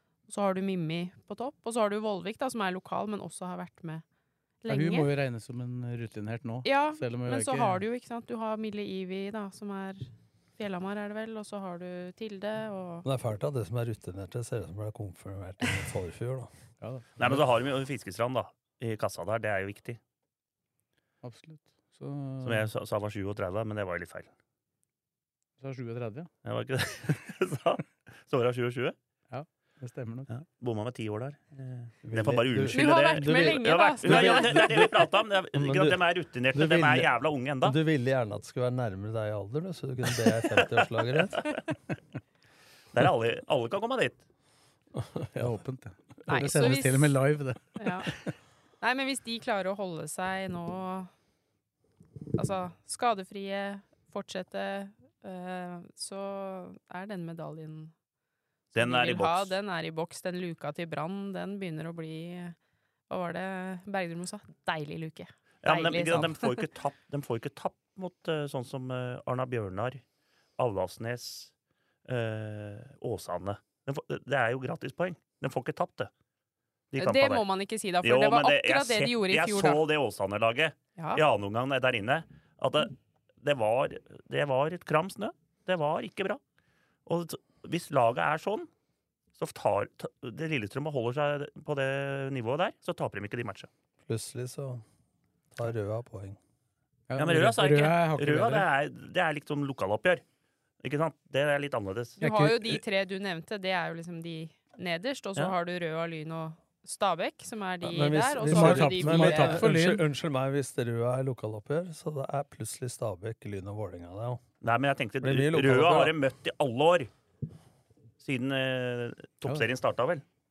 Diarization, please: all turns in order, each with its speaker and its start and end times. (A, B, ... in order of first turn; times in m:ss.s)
0:00.3-0:04.0 A
0:04.6-0:05.1 A
0:04.7-0:07.8 B
0:06.6-0:13.0 A
0:13.0-0:16.5 C
0:16.8-0:17.4 B
0:17.2-0:20.0 D
0:21.2-0:22.7 B
0:22.4-0:24.3 D
0:25.6-0:26.3 B
0:26.4-0:28.9 D
0:29.3-0:30.3 B
0:30.3-0:37.8 D
0:32.0-0:41.4 C
0:32.7-0:34.7 A
0:40.5-0:41.4 D
0:42.9-0:44.2 D
0:44.9-0:45.6 C
0:45.4-0:48.3 B
0:46.2-0:47.2 A
0:47.8-0:48.1 A
0:48.8-0:51.1 A
0:52.4-0:57.9 A
0:58.7-0:59.5 D
0:58.8-1:02.5 A
1:03.1-1:06.6 A
1:05.6-1:10.0 D
1:10.6-1:11.5 D
1:12.0-1:16.1 D
1:16.9-1:17.4 D
1:17.0-1:19.8 A
1:18.0-1:26.4 D
1:27.0-1:28.7 D
1:29.4-1:33.7 D
1:34.0-1:34.8 C
1:35.5-1:36.4 C
1:37.1-1:38.7 B
1:37.2-1:40.2 D
1:40.8-1:42.2 D
1:42.2-1:42.8 B
1:42.2-1:49.6 A
1:47.8-1:54.4 C
1:48.4-1:50.0 B
1:54.6-1:57.1 D
1:55.2-1:56.2 C
1:58.2-2:00.2 D